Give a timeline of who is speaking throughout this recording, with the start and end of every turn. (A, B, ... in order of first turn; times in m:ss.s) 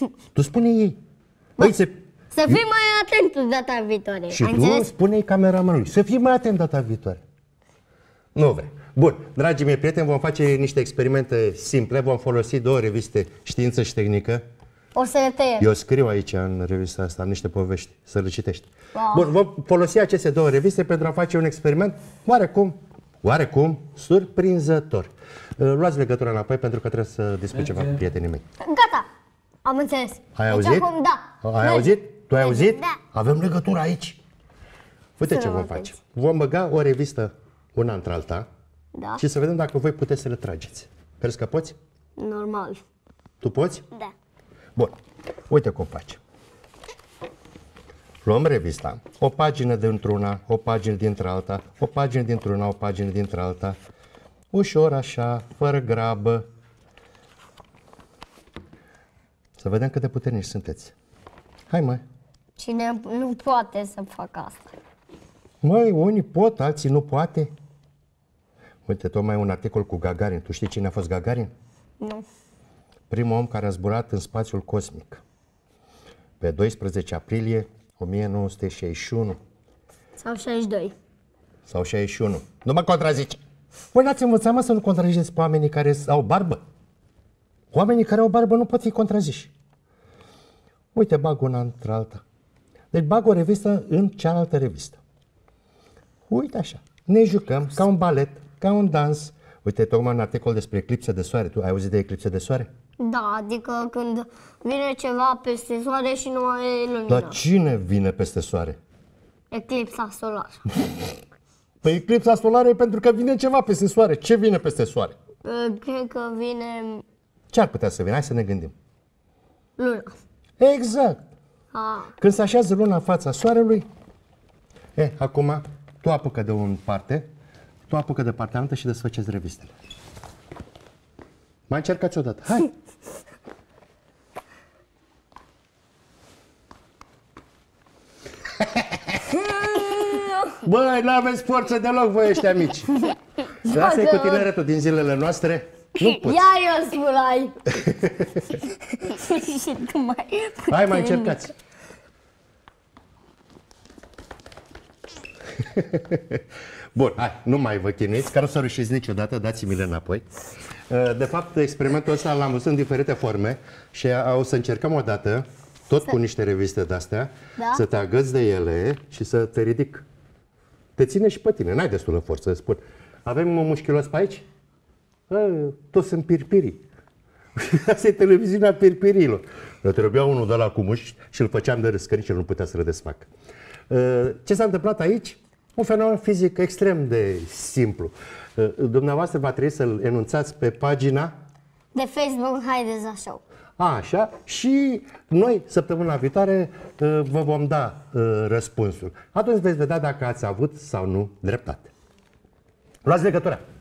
0:00.4-0:01.0 A
0:01.6-0:01.9 A
0:02.3-0:04.9 B
0:04.3-0:07.2 A
0:08.4-0:14.4 A
0:15.0-0:15.7 B
0:15.6-0:28.4 A
0:19.0-0:19.3 B
0:28.6-0:29.1 B
0:29.6-0:33.0 B
0:30.4-0:30.9 A
0:31.4-0:34.2 A
0:35.2-0:38.5 A
0:35.2-0:35.9 B
0:39.0-0:39.2 B
0:39.2-0:41.8 A
0:42.2-0:42.8 B
0:43.4-0:43.8 A
0:45.5-0:46.2 A
0:48.2-0:53.8 A
0:54.5-0:56.4 A
0:59.6-1:00.9 A
1:01.7-1:02.0 A
1:02.6-1:04.7 B
1:05.6-1:07.5 A
1:08.9-1:11.5 A
1:12.0-1:12.2 B
1:13.1-1:15.2 A
1:16.4-1:19.4 A
1:20.2-1:21.0 B
1:21.6-1:23.4 A
1:23.9-1:26.6 A
1:27.7-1:29.5 A
1:30.9-1:32.2 A
1:32.9-1:35.0 A
1:36.3-1:42.7 A
1:43.0-1:47.4 B
1:47.1-1:48.8 A
1:49.5-1:50.6 B
1:51.8-1:55.2 A
1:55.4-1:57.0 B
1:57.5-1:58.7 A
1:59.8-2:00.1 B
2:00.6-2:01.3 A
2:01.7-2:02.1 B
2:02.2-2:03.9 A
2:05.0-2:07.3 A
2:07.9-2:09.7 A
2:11.7-2:12.7 A
2:18.8-2:19.0 A
2:19.3-2:20.5 B
2:20.5-2:23.0 A
2:23.0-2:24.5 B
2:23.6-2:26.4 A
2:26.0-2:27.6 B
2:27.7-2:28.6 A
2:28.9-2:31.4 B
2:30.7-2:31.5 A
2:35.6-2:36.4 A
2:37.0-2:40.2 A
2:40.9-2:50.0 A
2:47.6-2:47.8 B
2:51.0-2:54.4 A
2:55.3-2:56.8 A
2:57.6-3:03.3 A
3:03.9-3:11.3 A
3:12.0-3:13.4 B
3:13.8-3:21.9 A
3:23.0-3:23.6 A